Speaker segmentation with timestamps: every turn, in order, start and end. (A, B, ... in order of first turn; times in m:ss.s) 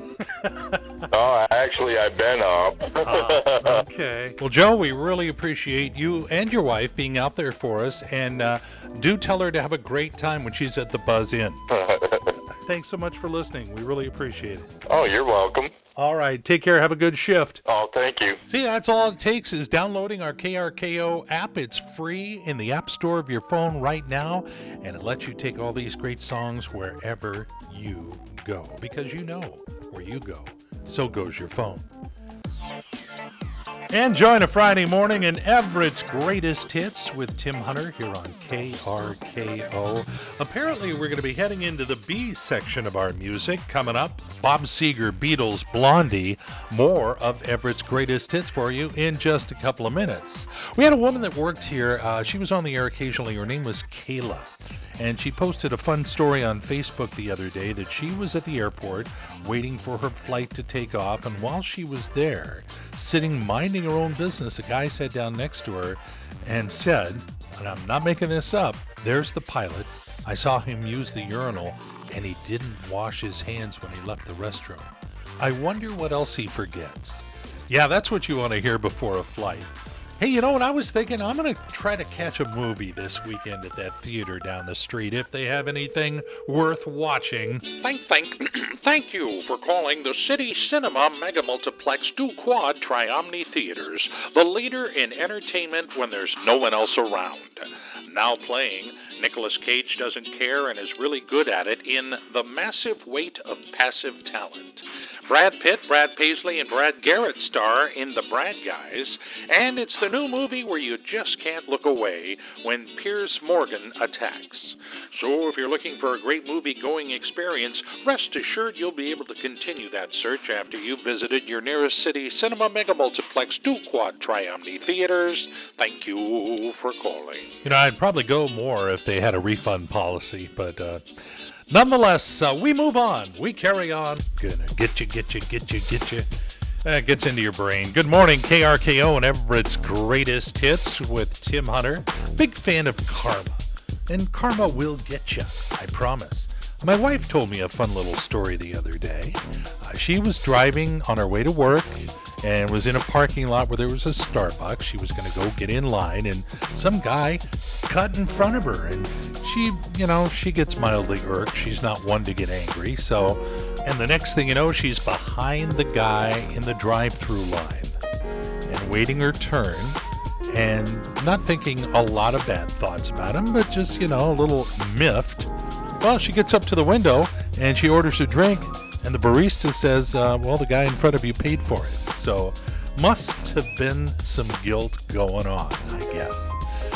0:00.2-0:01.1 A
0:01.1-0:03.8 B
0:03.0-0:11.6 A
0:11.7-0:12.4 B
0:12.6-0:14.7 A
0:14.9-0:15.7 B
0:16.0-0:17.6 A
0:17.6-0:18.4 B
0:18.5-0:31.9 A
0:33.9-1:27.9 A
1:27.8-1:44.6 C
1:44.5-1:44.8 A
1:45.3-2:07.5 C
2:07.6-2:11.0 A
2:11.7-2:16.3 A
2:16.8-2:48.0 A
2:48.7-3:06.6 A